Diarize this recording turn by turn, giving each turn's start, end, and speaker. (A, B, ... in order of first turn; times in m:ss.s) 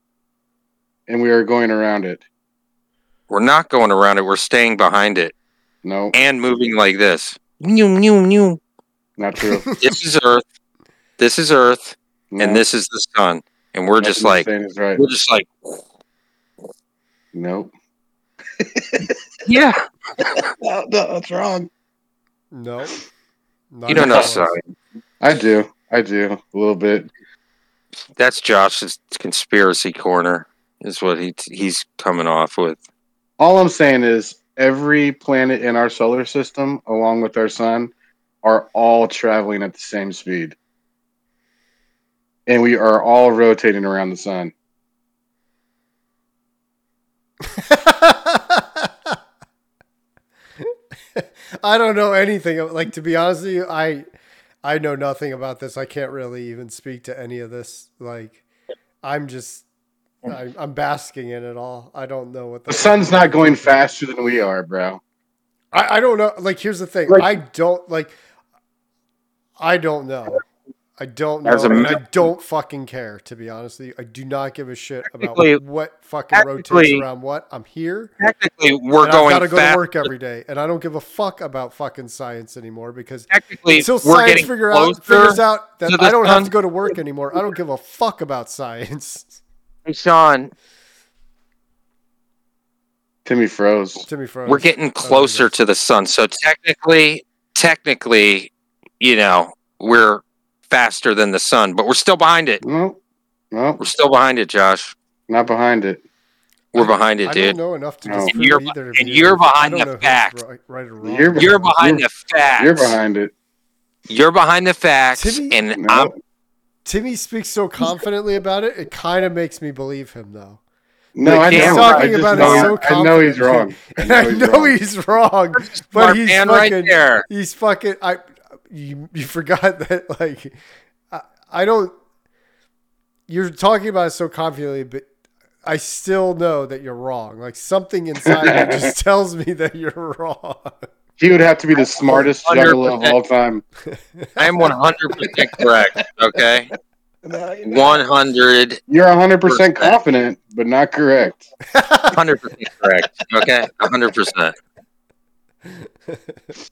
0:01.1-0:02.2 A
0:03.3-0:05.3 B
0:05.8-0:06.1 A
0:06.1-0:08.6 B
0:09.2-0:09.8 A
0:09.6-0:09.9 C
0:09.8-0:10.4 B
0:11.2-0:15.8 B
0:12.3-0:12.6 A
0:14.0-0:15.0 A
0:17.3-0:17.7 A
0:18.6-0:19.1 A
0:19.4-0:19.8 B
0:20.2-0:21.7 A
0:22.5-0:23.0 C
0:23.7-0:24.5 C
0:23.9-0:24.6 B
0:24.0-0:24.2 A
0:25.2-0:27.1 A
0:28.2-0:32.8 B
0:33.4-0:37.9 A
0:38.4-0:40.6 A
0:42.5-0:44.5 A
0:47.4-0:49.2 C
0:50.6-0:54.0 C
0:54.6-0:58.4 C
0:59.0-0:59.6 C
1:00.2-1:03.7 C
1:02.7-1:05.0 A
1:05.7-1:08.2 C
1:09.6-1:10.4 C
1:11.0-1:18.1 C
1:11.4-1:12.0 B
1:15.0-1:15.6 B
1:16.3-1:17.0 B
1:18.2-1:20.1 B
1:19.0-1:29.4 C
1:23.3-1:26.5 B
1:29.8-1:30.5 B
1:33.2-1:34.0 A
1:34.1-1:35.5 C
1:34.5-1:42.6 B
1:42.6-1:43.0 A
1:43.5-1:43.8 A
1:43.8-1:44.9 B
1:45.3-1:46.0 A
1:46.7-1:47.6 B
1:46.7-1:51.7 C
1:48.0-1:48.3 A
1:48.2-1:50.4 B
1:51.0-1:52.0 A
1:51.4-1:53.0 B
1:52.6-1:53.3 A
1:54.1-1:56.1 B
1:55.2-1:55.6 C
1:55.8-1:56.2 A
1:56.8-2:00.6 C
2:01.1-2:04.8 A
2:01.2-2:02.7 B
2:01.3-2:10.5 C
2:05.5-2:07.2 B
2:11.1-2:11.9 C
2:13.3-2:15.1 C
2:15.6-2:20.9 C
2:18.4-2:18.9 A
2:21.2-2:23.6 A
2:22.4-2:23.2 B
2:23.9-2:24.7 C
2:24.4-2:26.7 B
2:27.2-2:28.0 A
2:27.7-2:28.8 B
2:28.9-2:31.5 A
2:29.4-2:30.0 B
2:31.7-2:32.2 C
2:32.1-2:34.6 B
2:36.1-2:36.4 C